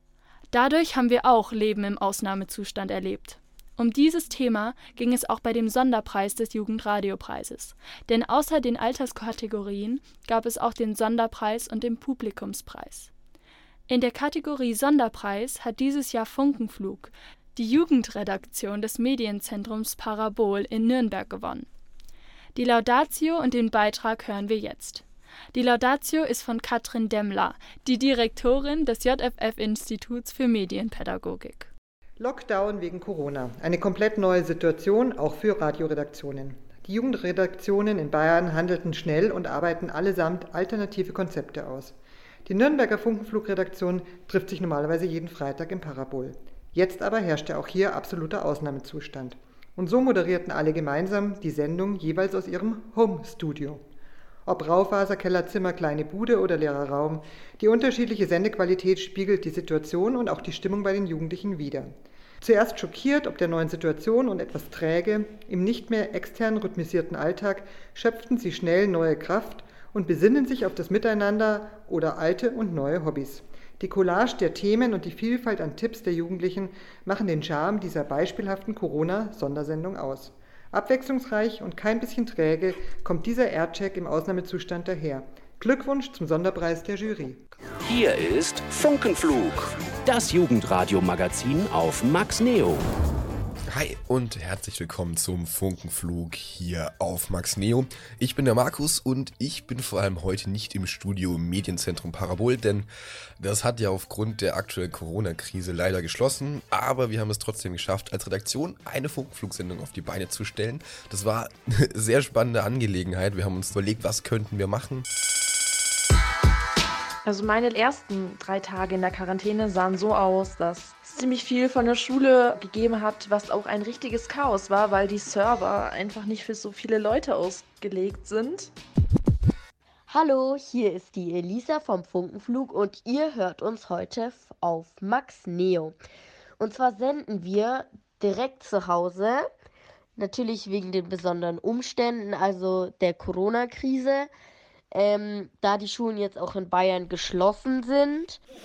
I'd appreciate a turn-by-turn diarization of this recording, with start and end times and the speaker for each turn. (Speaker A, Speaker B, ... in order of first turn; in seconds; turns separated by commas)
Speaker A: 0.5-13.1, Speaker A: 13.9-21.7, Speaker A: 22.5-31.7, Speaker B: 32.2-53.8, Speaker B: 54.5-87.4, Speaker C: 87.8-92.8, Speaker D: 93.7-102.8, Speaker D: 103.4-115.0, Speaker E: 117.2-128.7, Speaker F: 130.1-135.9, Speaker F: 136.6-139.4, Speaker F: 140.2-144.3, Speaker F: 144.9-148.4